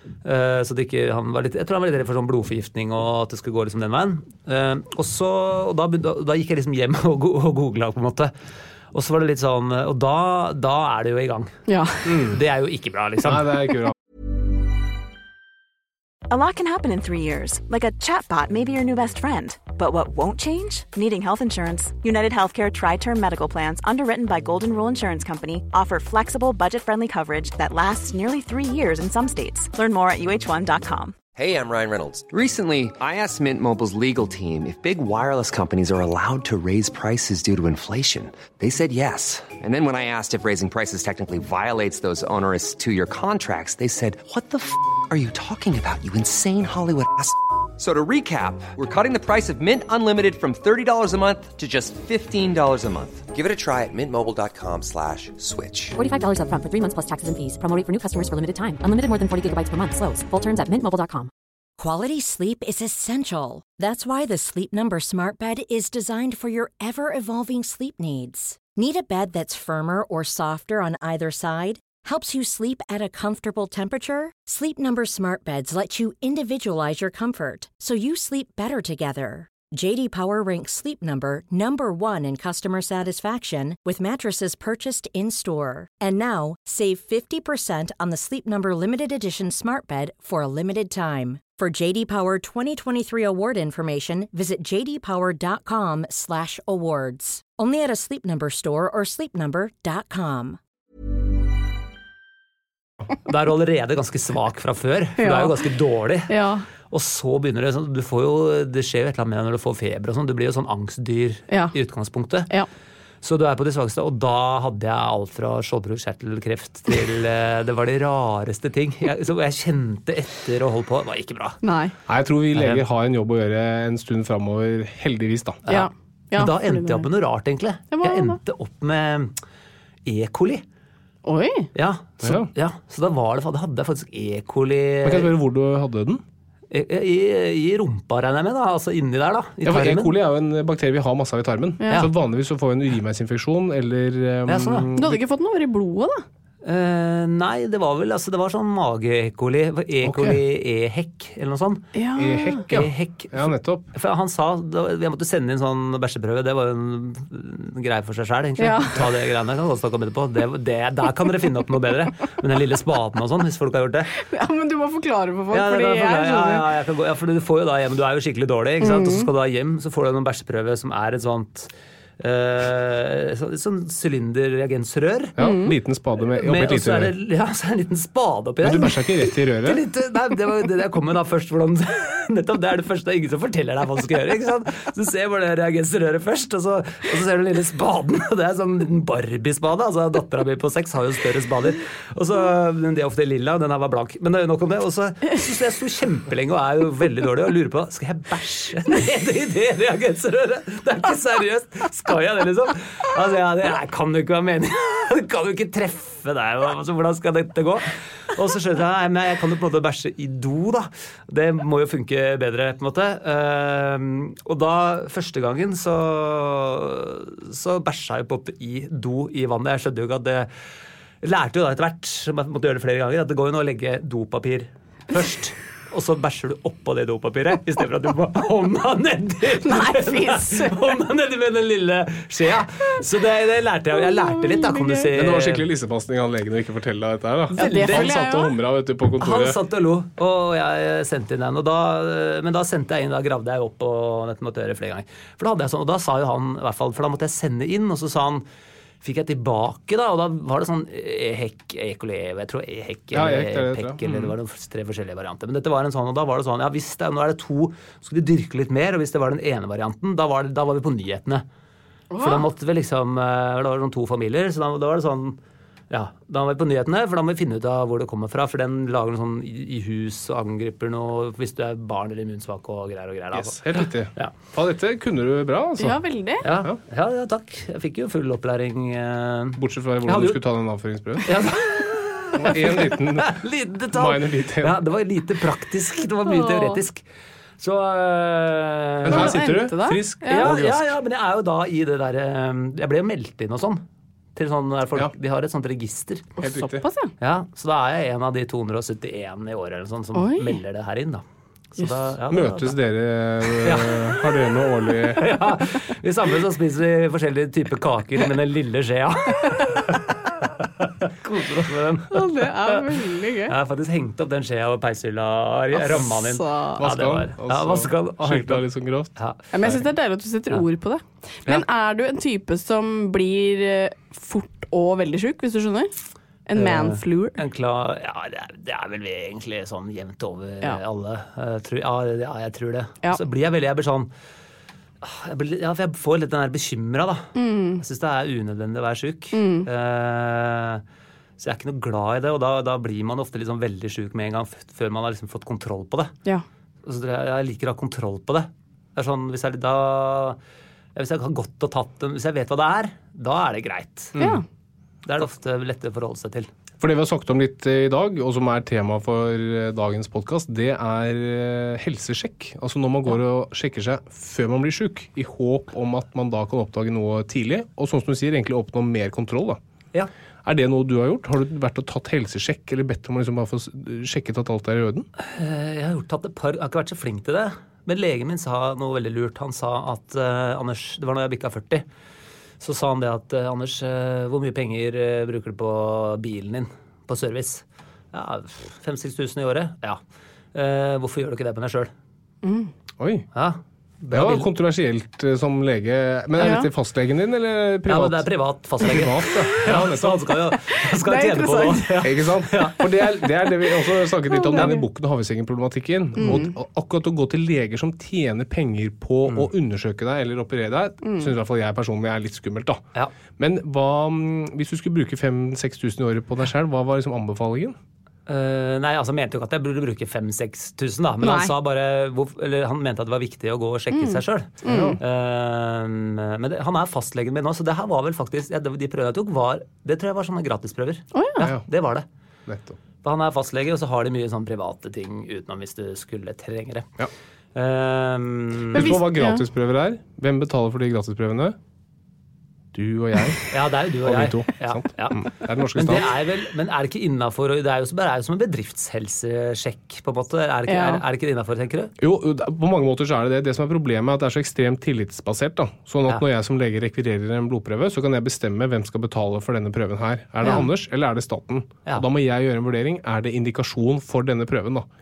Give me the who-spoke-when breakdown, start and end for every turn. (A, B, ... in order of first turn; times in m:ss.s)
0:00.2-0:08.3 A
0:08.9-0:11.6 A
0:11.7-0:12.1 B
0:12.1-0:12.4 C
0:12.1-0:13.5 A
0:13.2-0:13.9 C
0:16.3-0:31.2 D
0:31.4-0:56.0 E
0:56.0-1:01.3 F
1:01.8-1:40.6 G
1:43.2-1:46.3 A
1:45.2-1:45.6 B
1:46.3-1:46.7 B
1:46.9-1:52.5 A
1:53.2-2:01.6 A
2:01.6-2:01.9 B
2:02.1-2:05.6 C
2:02.6-2:02.8 A
2:05.7-2:09.4 A
2:05.7-2:07.1 B
2:07.9-2:08.4 B
2:10.1-2:10.6 A
2:11.2-2:11.7 B
2:11.7-2:15.3 A
2:12.2-2:12.5 C
2:15.0-2:16.2 C
2:16.7-2:20.1 A
2:19.6-2:25.2 C
2:21.8-2:22.1 B
2:24.5-2:24.9 A
2:25.0-2:26.2 B
2:26.6-2:31.9 A
2:30.0-2:30.4 C
2:32.0-2:32.6 B
2:32.2-2:33.9 C
2:32.7-2:44.1 A
2:38.6-2:39.0 B
2:44.2-2:46.6 B
2:45.5-2:55.4 A
2:48.8-2:49.3 B
2:55.4-2:57.1 C
2:55.4-2:55.7 B
2:56.3-2:59.0 A
2:58.6-2:59.8 C
2:59.6-3:40.5 A
3:41.2-3:55.7 A
3:49.6-3:50.9 B
3:54.1-3:55.1 B
3:55.1-3:59.6 C
3:57.6-3:58.5 B
3:57.6-3:58.1 A
3:59.2-4:08.4 A
4:09.0-4:21.4 A
4:13.1-4:14.4 C
4:22.1-4:22.5 B
4:22.2-4:25.4 A
4:25.9-4:34.3 A
4:33.3-4:36.0 C
4:35.8-4:36.4 B
4:36.4-4:40.4 A
4:39.6-4:41.4 C
4:41.3-4:47.0 A
4:42.4-4:43.4 C
4:43.9-4:44.8 C
4:46.3-4:46.8 B
4:47.6-4:49.4 A
4:49.0-4:50.8 C
4:49.1-4:50.5 B
4:50.3-4:53.8 A
4:54.4-4:56.3 A
4:56.4-4:57.1 B
4:56.4-4:56.9 C
4:57.2-5:01.2 A
5:00.2-5:00.6 B
5:01.8-5:02.8 A
5:02.3-5:05.3 C
5:03.6-5:04.3 A
5:05.0-5:13.0 A
5:12.1-5:13.5 B
5:13.5-5:18.6 A
5:15.8-5:16.8 B
5:16.8-5:19.1 C
5:19.2-5:19.4 A
5:19.5-5:25.9 B
5:26.5-5:27.4 B
5:26.6-5:34.1 A
5:35.0-5:40.8 A
5:37.4-5:37.8 B
5:39.3-5:39.7 B
5:41.4-5:46.1 A
5:46.8-5:50.4 A
5:51.0-5:54.2 A
5:54.2-5:54.4 C
5:54.2-5:54.4 B
5:55.0-5:56.5 A
5:56.8-6:09.6 C
6:10.4-6:15.1 C
6:15.2-6:21.8 A
6:22.6-6:30.0 A
6:30.5-6:31.9 A
6:32.4-6:32.7 B
6:33.0-6:33.3 C
6:33.4-6:34.5 A
6:34.1-6:38.3 C
6:36.4-6:36.7 B
6:37.9-6:42.9 A
6:38.8-6:40.3 C
6:40.7-6:41.9 B
6:42.0-6:52.8 C
6:44.3-6:44.8 B
6:46.2-6:46.5 B
6:51.0-6:51.3 B
6:53.4-6:57.8 C
6:58.3-7:12.1 A
7:01.2-7:01.5 B
7:03.9-7:05.0 B
7:04.7-7:05.0 C
7:11.1-7:11.5 B
7:11.4-7:11.6 C
7:12.5-7:12.8 C
7:13.0-7:16.9 A
7:17.6-7:18.9 A
7:18.7-7:21.6 C
7:18.7-7:19.4 B
7:22.7-7:26.1 C
7:23.5-7:31.9 A
7:30.7-7:31.0 B
7:32.0-7:44.9 C